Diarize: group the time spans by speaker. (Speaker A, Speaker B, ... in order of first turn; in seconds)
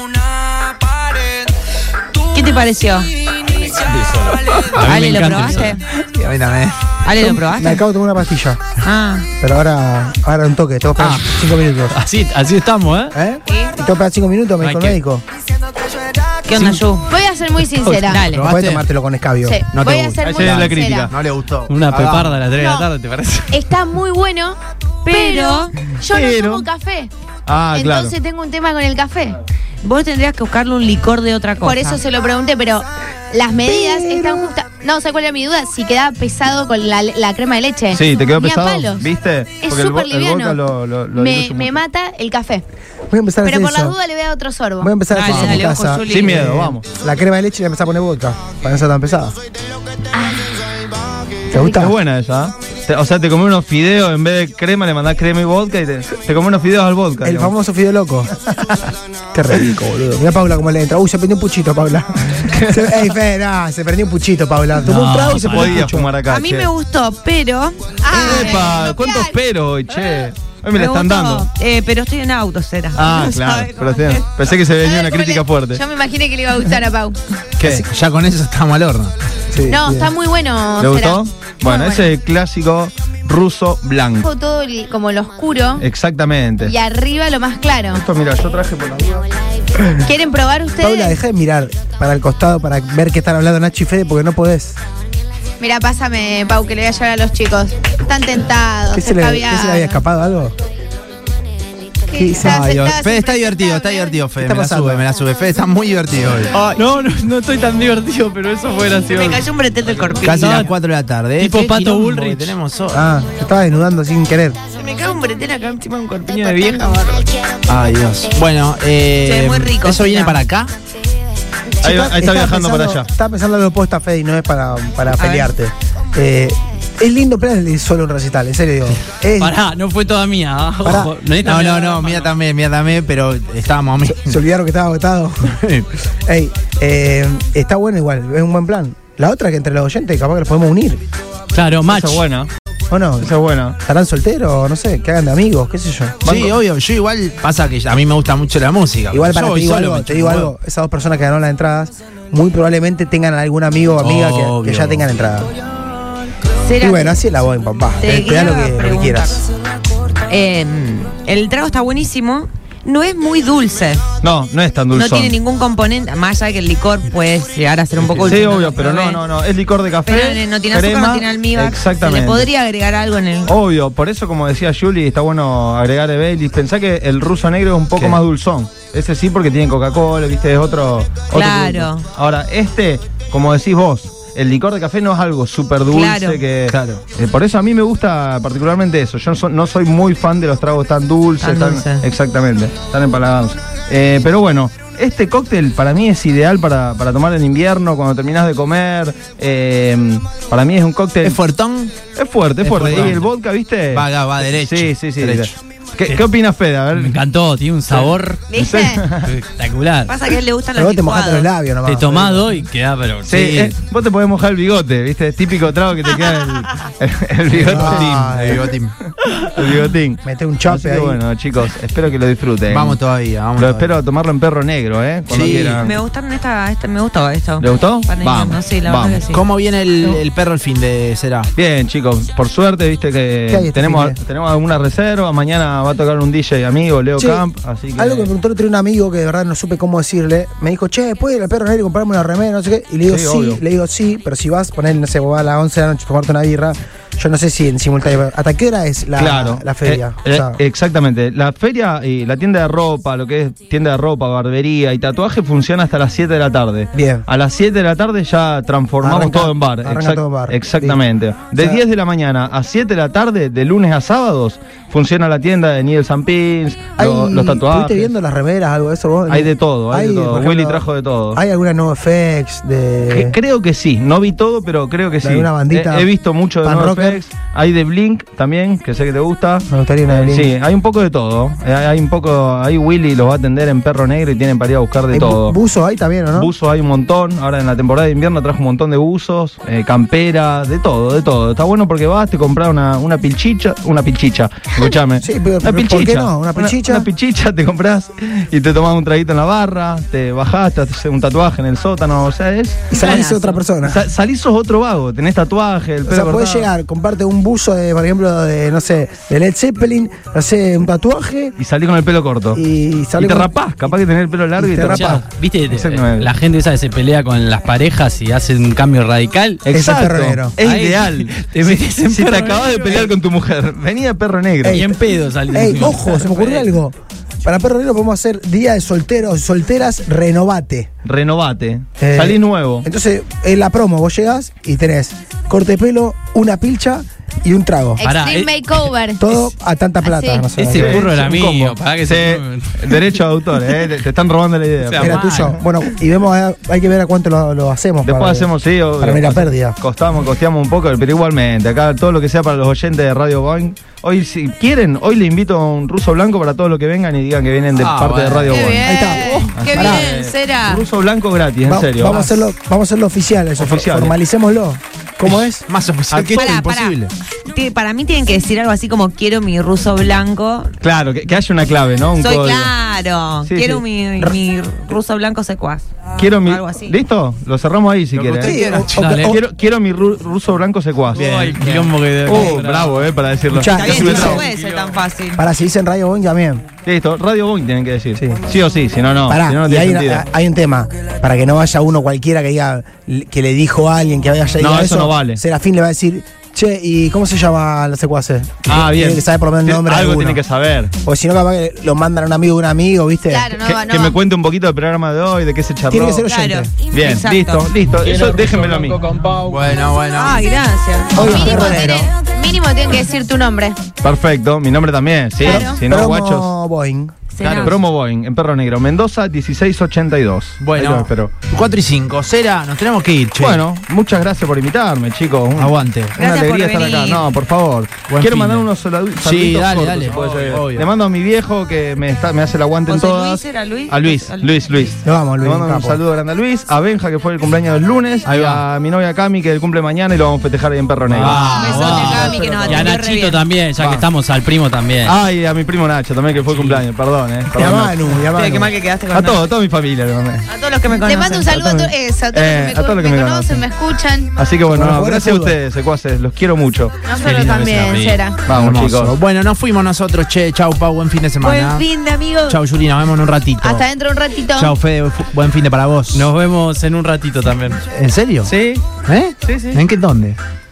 Speaker A: 2.3-3.1, 4.8-5.8, 7.0-7.8, 8.8-9.3, 13.5-13.7, 16.4-17.1, 18.1-18.5, 25.0-25.8, 29.8-32.0, 45.1-46.6, 66.3-68.7, 70.7-74.5, 109.1-110.6, 114.8-117.1, 119.2-120.4, 125.2-125.5, 156.6-157.2, 158.0-159.4, 160.3-164.0, 164.9-169.2, 170.1-173.6, 181.3-182.1, 185.9-186.4, 191.4-192.1, 208.5-208.8, 210.1-211.5, 225.8-229.4, 303.0-303.4, 358.5-360.9, 366.3-370.7, 372.2-375.9, 376.4-377.0, 382.3-382.6, 383.7-385.4, 406.2-407.7, 410.1-411.7, 417.3-417.8, 426.2-427.3, 432.9-435.0, 441.2-443.5, 448.3-449.5, 450.5-451.5, 461.4-462.5
Speaker B: 3.8-5.8, 11.0-13.2, 14.6-15.0, 17.8-18.2, 21.7-23.6, 64.8-65.9, 106.6-110.7, 111.4-112.5, 116.3-117.3, 129.4-132.3, 141.5-142.2, 206.9-208.5, 209.2-210.1, 211.8-213.5, 314.8-319.6, 320.6-323.1, 324.7-326.7, 338.0-338.8, 340.6-343.1, 344.8-345.5, 379.0-379.4, 381.2-383.1, 384.0-384.9, 408.0-409.6, 441.1-445.2, 446.3-446.8, 457.2-458.3, 466.1-467.8, 468.4-468.9, 469.4-469.8
Speaker C: 4.4-4.9, 5.9-6.9, 18.3-18.9, 19.7-22.4, 77.6-79.1, 102.4-106.8, 110.2-113.1, 117.7-120.7, 131.4-134.4, 135.4-135.9, 146.2-150.5, 154.0-155.1, 186.7-187.0, 201.2-202.0, 202.6-203.3, 203.9-205.5, 213.3-213.7, 217.6-218.9, 222.7-224.0, 225.3-225.8, 229.3-231.5, 357.7-359.6, 365.2-367.1, 378.1-379.1, 381.1-382.0, 409.4-410.5, 417.4-417.8, 420.6-423.6, 425.5-426.2, 428.1-430.9, 438.2-438.6, 441.3-442.5, 458.5-461.9, 462.4-463.8, 464.5-466.3, 467.9-470.4
Speaker D: 7.2-8.6, 9.4-12.0, 13.1-15.2, 18.4-19.6, 33.6-34.5, 43.1-44.0, 44.8-49.4, 51.5-51.9, 57.2-58.3, 59.3-66.1, 79.5-80.1, 90.8-94.8, 98.9-100.5, 102.1-102.6, 104.4-105.0, 112.9-114.6, 121.8-129.6, 130.8-131.1, 134.0-135.6, 136.2-141.0, 142.9-146.2, 149.1-155.5, 156.8-159.4, 210.7-212.4, 217.6-218.7, 220.2-221.2, 233.5-234.2, 237.2-250.6, 256.9-257.2, 259.0-261.0, 267.0-270.8, 271.3-273.4, 275.2-276.1, 276.6-277.2, 279.7-280.5, 285.1-286.5, 295.2-297.1, 302.9-304.1, 306.0-311.6, 312.5-313.9, 314.6-315.2, 319.7-320.6, 324.6-330.9, 332.0-338.0, 339.2-341.0, 345.0-349.8, 358.8-360.0, 361.6-365.6, 378.4-379.4, 383.5-384.4, 385.4-386.6, 388.2-388.4, 389.3-400.4, 401.0-403.5, 405.9-406.7, 411.1-412.1, 415.4-417.1, 435.0-436.0, 447.5-448.7, 454.7-455.6
Speaker E: 17.1-18.2, 19.4-21.1, 22.6-22.9, 23.5-27.1, 27.7-29.4, 31.6-39.1, 39.6-40.6, 41.1-42.6, 43.4-44.9, 50.1-50.5, 68.0-69.3, 74.8-77.2, 79.6-82.1, 84.2-85.8, 86.6-88.0, 90.0-91.2, 95.6-100.0, 102.1-104.1, 208.5-209.0, 338.0-339.4, 340.0-340.5, 359.0-359.7, 403.3-404.1, 411.1-413.8, 415.4-415.8, 442.1-442.6, 450.9-454.3, 457.0-458.4, 463.6-464.7
Speaker F: 20.2-21.1, 26.0-26.6, 27.5-28.1, 37.9-41.8, 46.1-46.8, 51.5-57.5, 65.1-66.7, 68.1-71.5, 72.9-75.8, 80.8-84.3, 85.8-86.7, 87.9-89.3, 121.8-123.1, 141.9-142.5, 143.2-143.8, 146.2-146.6, 164.2-165.4, 168.0-172.5, 173.4-201.4, 202.1-207.2, 207.9-209.3, 213.2-218.5, 219.1-223.0, 223.5-226.0, 227.6-229.2, 231.6-238.3, 243.1-243.6, 249.2-268.1, 269.3-271.4, 273.1-285.6, 286.3-306.7, 311.6-312.6, 313.2-315.1, 315.7-316.3, 319.6-324.8, 331.0-332.9, 340.6-345.6, 348.0-358.9, 359.5-362.3, 363.6-364.2, 366.1-366.5, 370.8-372.7, 373.4-373.8, 376.1-378.6, 379.1-381.4, 382.2-384.4, 386.8-390.2, 394.6-395.4, 398.7-400.9, 403.6-406.2, 406.9-409.0, 414.0-416.5, 417.6-421.3, 423.4-443.0, 443.8-444.0, 445.0-448.0, 449.1-450.4, 451.5-453.6, 454.4-457.6, 458.4-459.1